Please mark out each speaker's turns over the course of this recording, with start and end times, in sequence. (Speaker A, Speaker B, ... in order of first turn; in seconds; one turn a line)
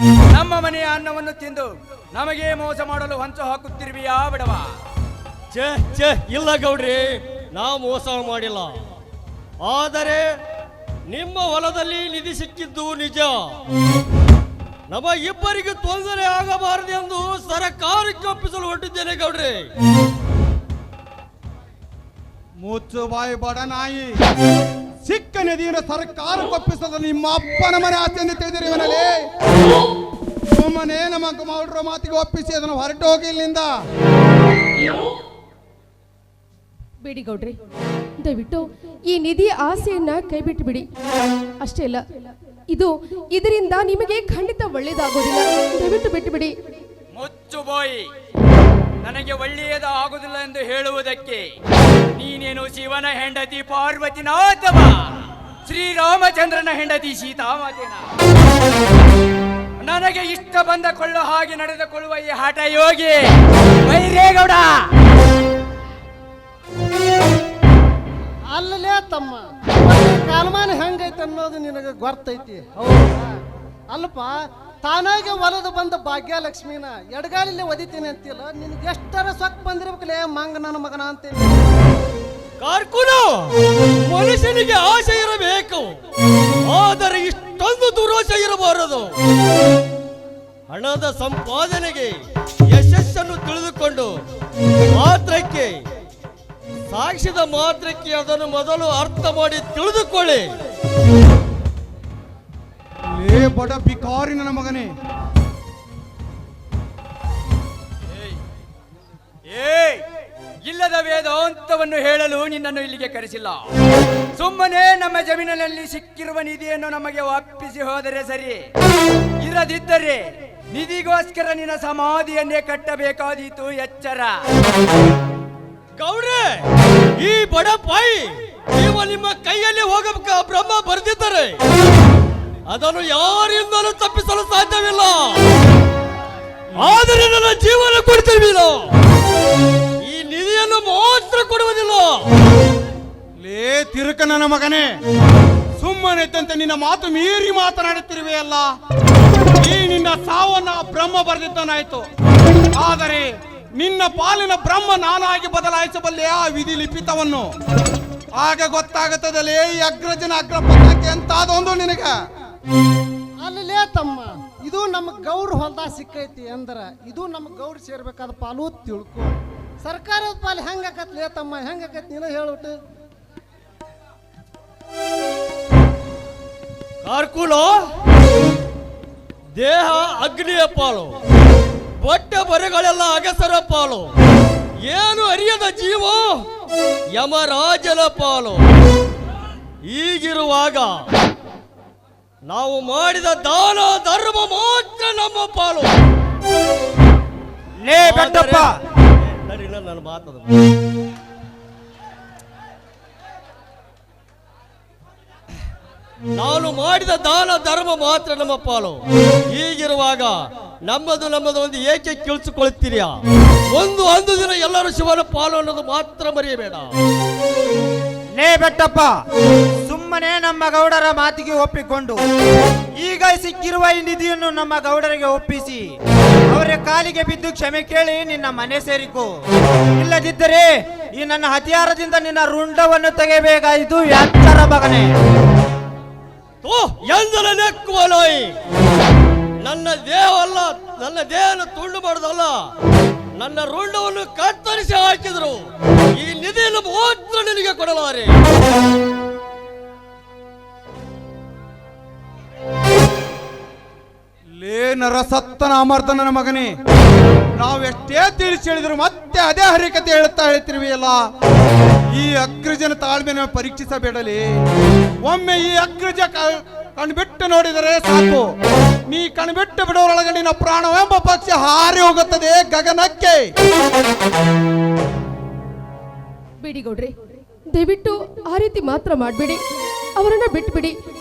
Speaker A: 0.3-4.7
Speaker B: 5.5-8.7
Speaker B: 9.6-10.3
Speaker B: 11.1-13.5
Speaker B: 14.9-19.7
Speaker C: 22.6-24.2
Speaker C: 25.0-29.3
Speaker C: 30.5-33.7
Speaker D: 37.0-37.6
Speaker D: 38.2-40.9
Speaker D: 41.6-42.0
Speaker D: 42.7-46.5
Speaker A: 47.1-48.1
Speaker A: 49.0-51.5
Speaker A: 52.1-55.1
Speaker A: 55.7-58.1
Speaker A: 59.8-64.9
Speaker E: 68.5-73.3
Speaker E: 73.9-81.7
Speaker B: 82.6-83.5
Speaker B: 84.1-86.0
Speaker B: 86.7-89.2
Speaker B: 90.7-92.2
Speaker B: 92.7-94.2
Speaker B: 94.9-95.8
Speaker B: 96.9-100.5
Speaker C: 103.1-104.9
Speaker A: 108.1-108.4
Speaker A: 109.5-110.0
Speaker A: 110.6-113.7
Speaker A: 114.4-118.7
Speaker A: 119.4-124.4
Speaker B: 126.0-126.7
Speaker B: 127.2-131.6
Speaker B: 132.7-135.4
Speaker B: 136.7-138.8
Speaker B: 140.0-142.2
Speaker C: 143.4-145.0
Speaker C: 145.8-148.7
Speaker C: 149.6-152.1
Speaker C: 152.7-157.5
Speaker C: 158.4-162.2
Speaker E: 163.4-172.8
Speaker B: 177.0-177.8
Speaker B: 179.6-181.2
Speaker B: 182.0-184.1
Speaker B: 184.8-186.5
Speaker B: 187.1-188.6
Speaker B: 189.8-191.1
Speaker B: 192.5-195.9
Speaker F: 197.8-198.8
Speaker B: 198.0-200.5
Speaker B: 206.3-213.2
Speaker B: 213.7-216.9
Speaker F: 218.4-219.1
Speaker F: 219.8-222.2
Speaker F: 223.0-225.9
Speaker F: 226.5-229.3
Speaker F: 230.0-235.1
Speaker B: 236.6-238.6
Speaker B: 239.6-242.7
Speaker B: 243.4-248.4
Speaker C: 254.6-256.8
Speaker C: 257.6-261.3
Speaker C: 262.1-264.5
Speaker C: 265.2-268.5
Speaker C: 269.1-273.5
Speaker D: 276.6-277.1
Speaker D: 277.7-279.6
Speaker D: 280.2-280.9